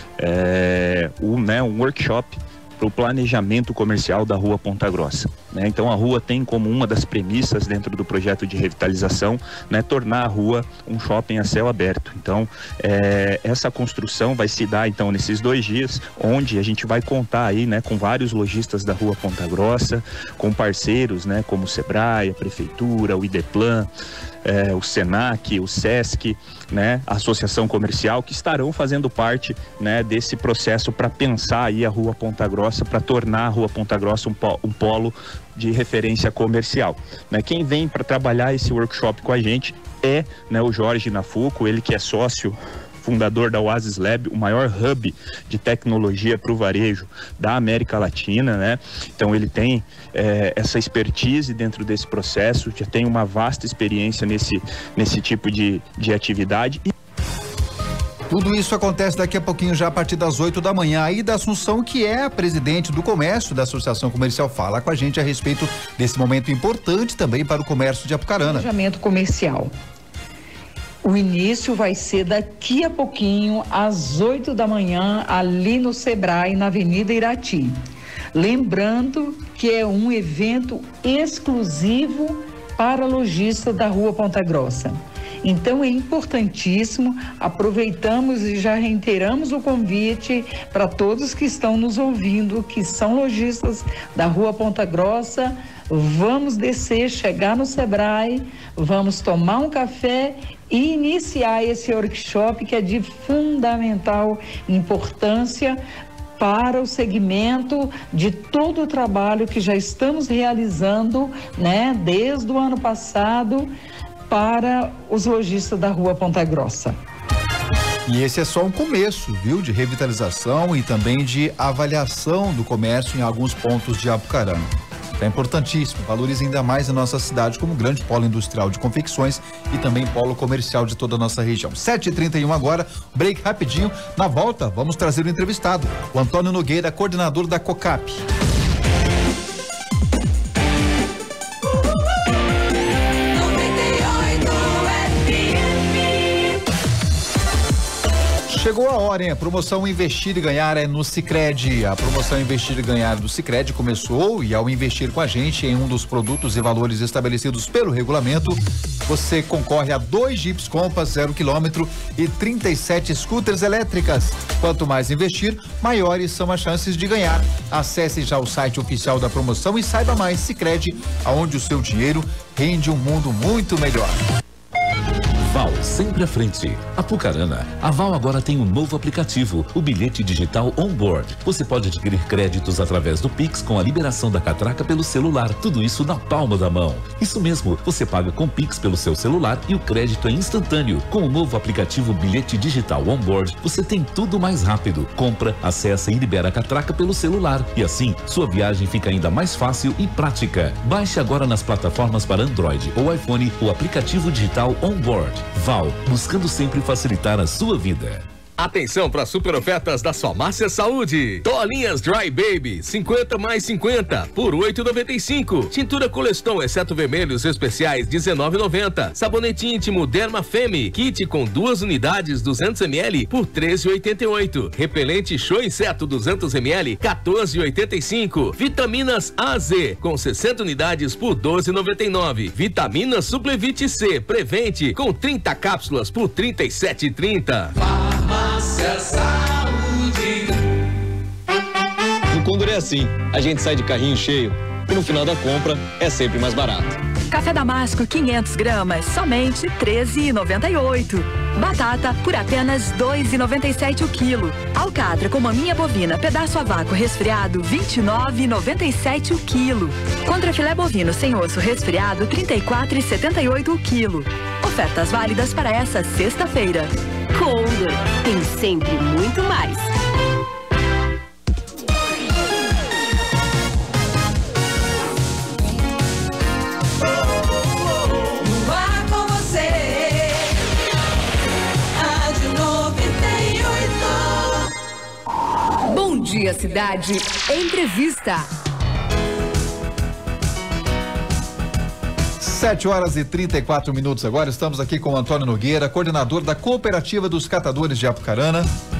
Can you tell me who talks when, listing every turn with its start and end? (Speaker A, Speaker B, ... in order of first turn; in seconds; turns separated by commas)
Speaker A: 0.2-23.9, Speaker A: 24.4-56.9, Speaker B: 58.3-68.7, Speaker C: 68.4-69.7, Speaker C: 71.0-77.8, Speaker C: 78.3-105.8, Speaker C: 106.4-113.7, Speaker C: 114.3-117.0, Speaker B: 118.1-138.2, Speaker D: 143.3-145.7, Speaker B: 148.5-174.2, Speaker E: 175.4-208.2, Speaker F: 208.6-237.7, Speaker G: 242.3-246.9, Speaker H: 247.3-266.9, Speaker I: 267.3-269.9, Speaker D: 278.4-280.6, Speaker D: 281.9-284.6, Speaker D: 285.9-288.5, Speaker B: 292.4-298.7